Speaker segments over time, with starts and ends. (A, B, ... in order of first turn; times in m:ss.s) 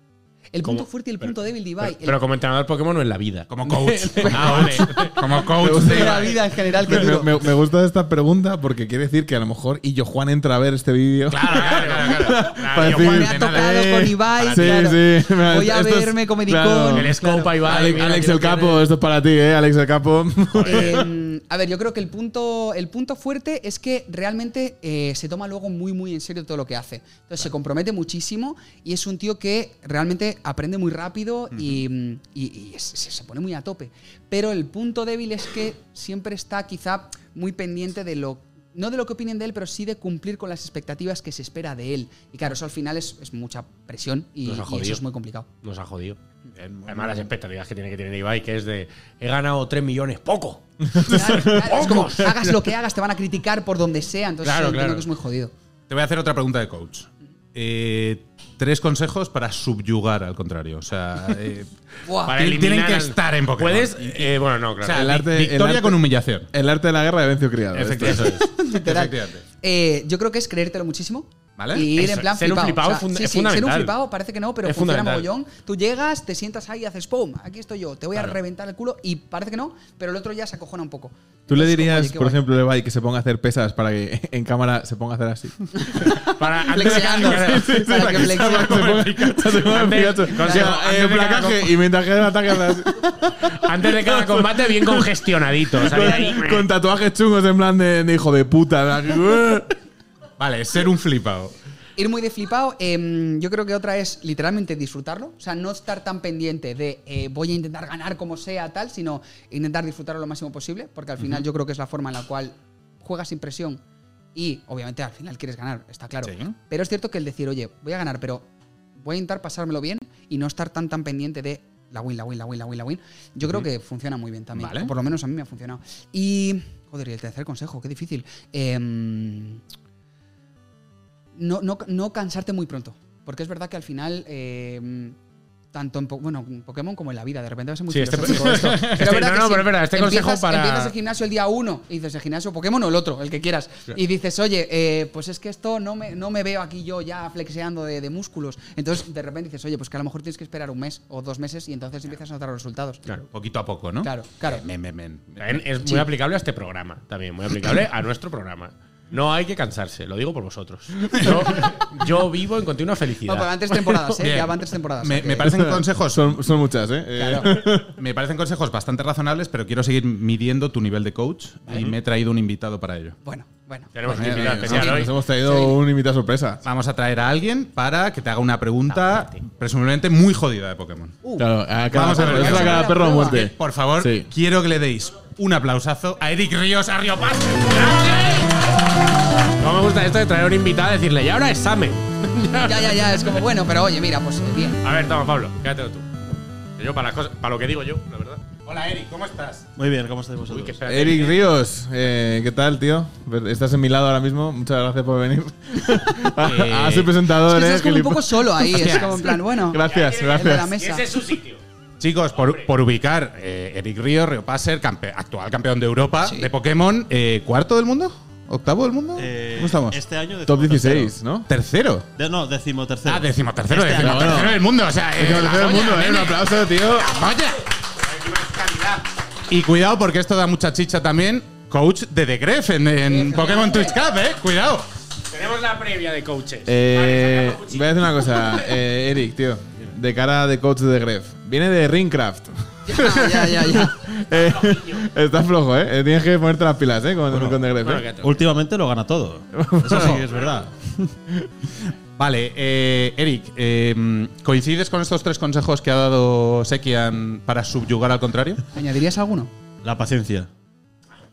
0:00.5-0:02.2 A
0:00.6-0:05.2 B
0:03.5-0:06.4 C
0:04.2-0:04.8 A
0:05.6-0:21.1 D
0:05.7-0:07.3 A
0:11.3-0:14.8 C
0:11.4-0:12.4 B
0:12.8-0:18.0 A
0:16.8-0:18.8 B
0:20.5-0:20.8 B
0:20.7-0:45.5 A
0:31.5-0:31.8 C
0:44.4-0:45.0 B
0:45.6-0:46.2 B
0:46.6-0:47.3 C
0:46.8-0:52.4 B
0:51.0-0:51.6 D
0:51.0-0:55.5 A
0:54.4-0:55.0 B
0:55.9-1:01.7 C
1:02.0-1:02.4 A
1:02.2-1:05.2 B
1:02.4-1:06.5 C
1:04.8-1:08.4 D
1:07.7-1:08.5 B
1:08.3-1:22.4 A
1:08.7-1:09.4 C
1:11.6-1:11.9 C
1:11.9-1:13.9 B
1:14.6-1:15.3 B
1:21.5-1:26.1 D
1:25.8-1:28.9 A
1:26.2-1:31.7 B
1:26.7-1:35.1 D
1:33.5-1:36.6 B
1:35.6-1:39.7 D
1:40.4-1:41.5 C
1:42.0-1:53.8 A
1:54.3-2:09.6 A
1:56.2-1:56.5 C
2:04.5-2:04.9 C
2:11.3-2:15.2 A
2:15.7-2:33.1 A
2:17.9-2:20.9 B
2:33.3-2:36.0 C
2:34.0-2:34.6 A
2:35.4-2:43.5 B
2:43.2-2:45.5 A
2:44.1-2:46.4 C
2:45.4-2:47.9 D
2:47.1-2:47.5 A
2:47.8-2:53.2 C
2:51.7-2:51.9 B
2:53.2-2:55.8 A
2:53.9-2:55.1 B
2:54.0-2:56.6 D
2:56.6-3:01.2 C
2:58.9-2:59.4 B
3:01.2-3:03.5 A
3:01.4-3:04.3 D
3:01.9-3:07.6 C
3:07.3-3:08.6 B
3:09.6-3:13.0 B
3:12.5-3:14.8 A
3:14.8-3:16.1 B
3:16.8-3:18.4 B
3:18.6-3:19.7 C
3:19.8-3:20.8 E
3:20.5-3:21.4 B
3:20.8-3:30.7 D
3:26.4-3:27.1 B
3:27.4-3:31.2 A
3:28.7-3:29.2 C
3:29.8-3:31.6 B
3:32.0-3:40.0 C
3:32.4-3:32.7 B
3:36.2-3:36.5 A
3:39.2-3:41.2 E
3:40.4-3:41.5 D
3:41.4-3:42.1 C
3:42.2-3:44.6 E
3:43.1-3:46.4 C
3:44.0-3:47.2 D
3:47.0-3:47.6 C
3:48.0-3:49.0 B
3:49.5-3:54.8 C
3:53.1-3:54.0 A
3:55.3-3:58.7 B
3:56.6-4:08.0 D
4:02.8-4:03.9 A
4:04.3-4:05.0 B
4:07.3-4:07.6 E
4:07.8-4:08.3 B
4:08.1-4:11.0 E
4:09.5-4:10.2 D
4:12.2-4:18.6 C
4:18.7-4:19.5 A
4:19.8-4:20.5 E